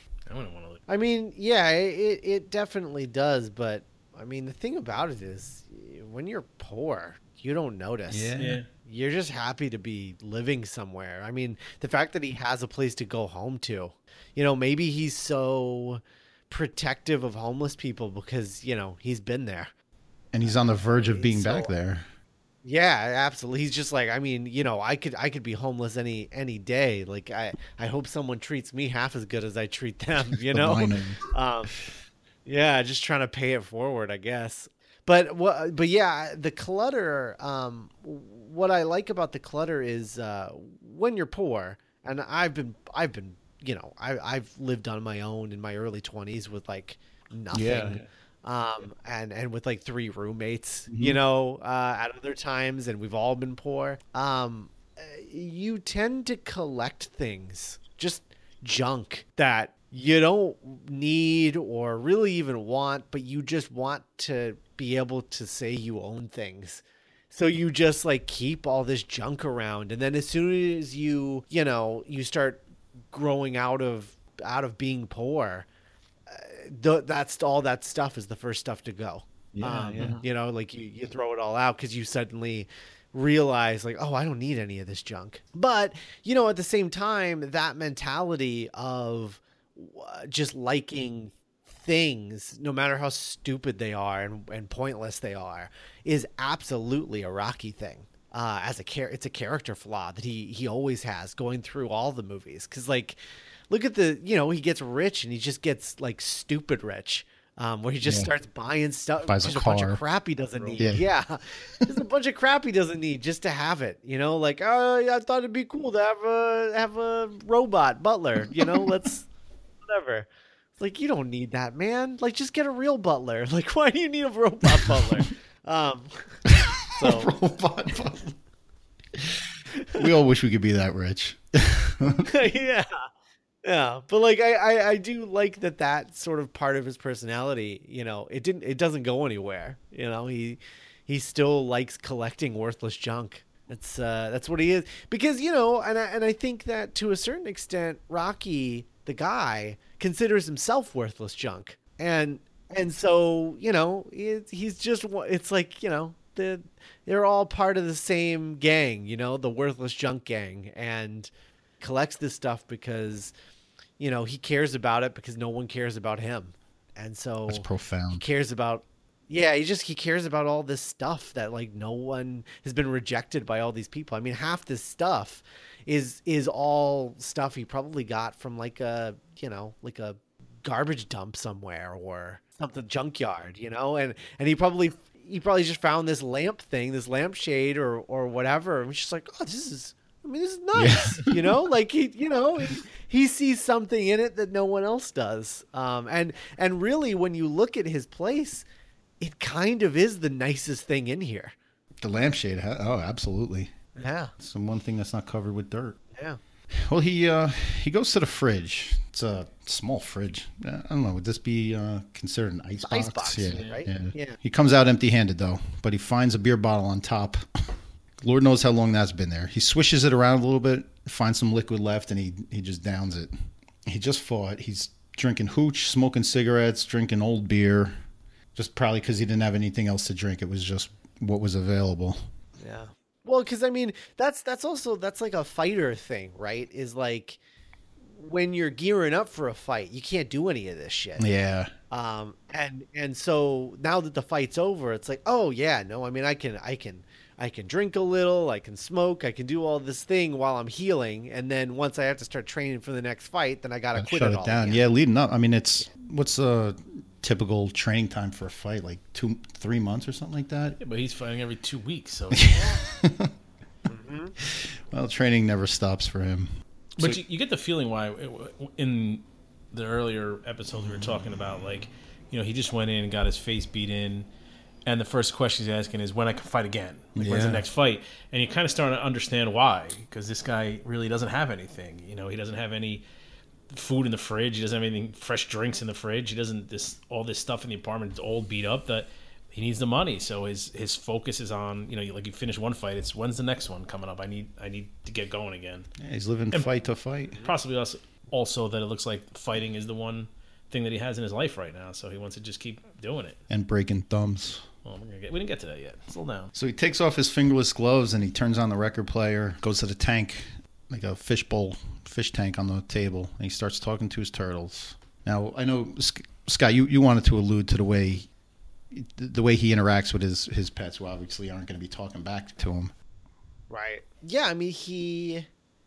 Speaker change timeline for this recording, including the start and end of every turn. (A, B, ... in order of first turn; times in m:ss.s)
0:00.3-0:00.8 A
0:00.9-0:19.7 B
0:08.1-0:08.6 C
0:08.3-0:08.7 A
0:20.3-0:22.1 C
0:20.4-0:21.7 B
0:22.6-0:31.8 B
0:30.5-0:31.2 C
0:32.4-1:15.7 B
0:47.5-0:48.0 C
0:50.9-0:51.2 C
1:16.3-1:59.3 B
1:19.5-1:20.2 C
1:48.0-1:48.3 C
1:49.2-1:50.0 C
1:50.5-1:50.9 A
1:50.8-1:51.0 C
1:59.8-2:07.3 B
2:07.0-2:08.4 C
2:09.2-2:12.3 C
2:09.8-2:10.1 B
2:12.2-2:12.9 B
2:13.6-2:43.3 B
2:44.0-3:18.7 B
2:47.5-2:48.2 C
3:10.7-3:11.5 C
3:19.2-3:21.6 B
3:22.0-3:23.7 C
3:24.0-3:24.3 B
3:24.4-3:26.0 C
3:26.9-3:37.4 C
3:32.8-3:34.4 B
3:33.5-3:33.9 A
3:38.2-3:43.3 C
3:43.9-3:47.9 C
3:48.6-3:52.2 C
3:52.6-3:57.4 B
3:58.0-4:01.3 B
4:01.2-4:01.7 C
4:01.9-4:14.8 B
4:14.0-4:20.8 C
4:20.8-4:22.4 A
4:22.3-4:23.3 C
4:23.9-4:24.4 B
4:24.4-4:27.2 C
4:27.0-4:34.3 A
4:34.9-4:43.1 A
4:37.2-4:37.6 C
4:43.7-4:55.9 A
4:56.0-4:57.5 C
4:57.4-5:03.4 A
5:03.5-5:04.6 C
5:04.8-5:06.5 A
5:06.5-5:18.3 C
5:18.9-5:22.9 C
5:23.7-5:25.5 B